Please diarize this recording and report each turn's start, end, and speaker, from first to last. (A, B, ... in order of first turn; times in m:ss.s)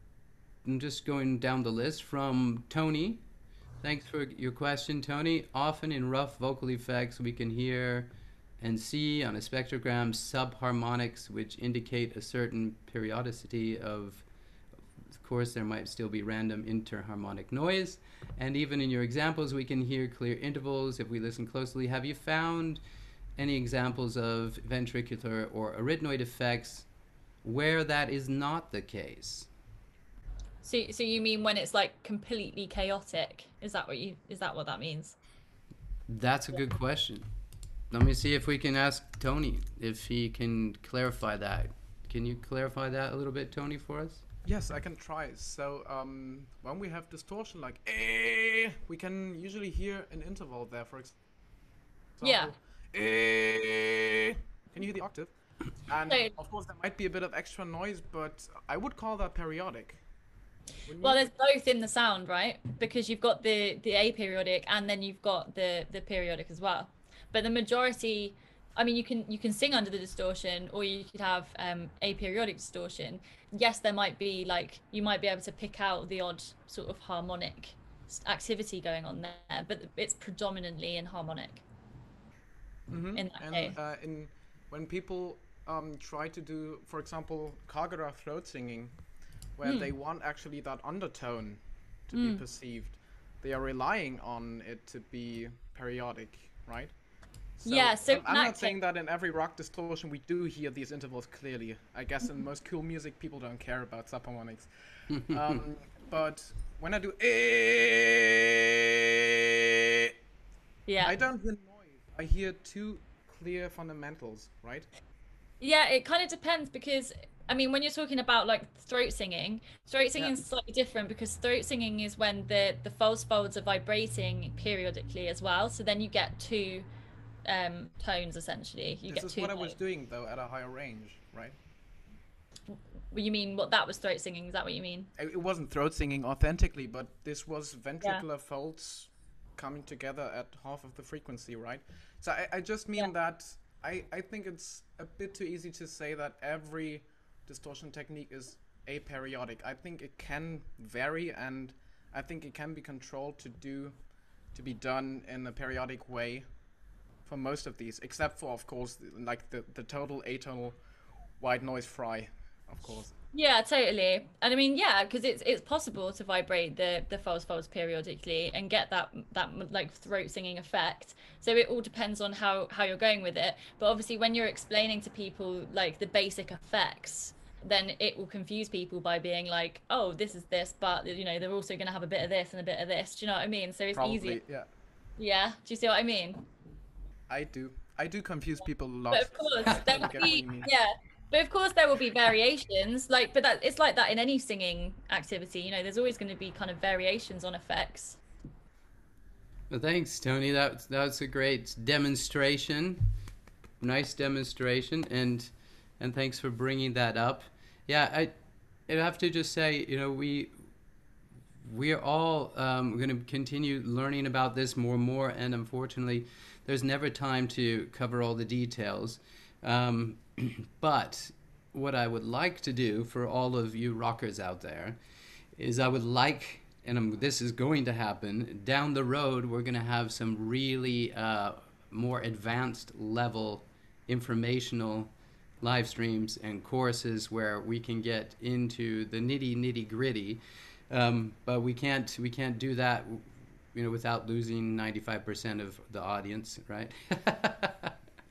0:00.6-0:03.2 A
0:03.8-0:14.2 A
0:15.2-0:22.8 A
0:23.4-0:26.9 A
0:27.4-0:29.5 A
0:30.6-0:35.2 B
0:36.1-0:37.2 A
0:37.9-0:44.2 A
0:44.4-0:51.1 C
0:52.2-0:55.3 C
0:52.2-0:52.5 B
0:55.9-1:00.0 C
0:56.1-0:56.3 B
1:00.9-1:01.2 C
1:01.0-1:21.6 B
1:22.9-1:28.9 C
1:23.1-1:23.7 B
1:29.6-1:36.9 C
1:29.6-1:29.9 B
1:32.1-1:32.4 B
1:37.6-1:44.7 C
1:37.6-1:38.8 B
1:45.1-1:45.6 A
1:45.3-1:50.1 C
1:50.8-1:51.2 B
1:51.0-1:54.9 C
1:55.6-2:06.9 B
2:07.4-2:09.8 B
2:09.1-2:11.6 C
2:12.7-2:15.1 B
2:15.2-2:33.9 C
2:34.5-2:36.4 C
2:37.2-2:40.8 C
2:41.4-2:43.1 C
2:43.3-3:04.4 B
3:03.9-3:04.7 C
3:05.2-3:06.4 B
3:07.3-3:10.7 C
3:09.1-3:18.2 B
3:09.7-3:10.0 A
3:19.7-3:23.0 A
3:23.8-3:28.3 A
3:28.9-3:30.5 A
3:31.6-3:45.0 A
3:45.6-4:07.9 A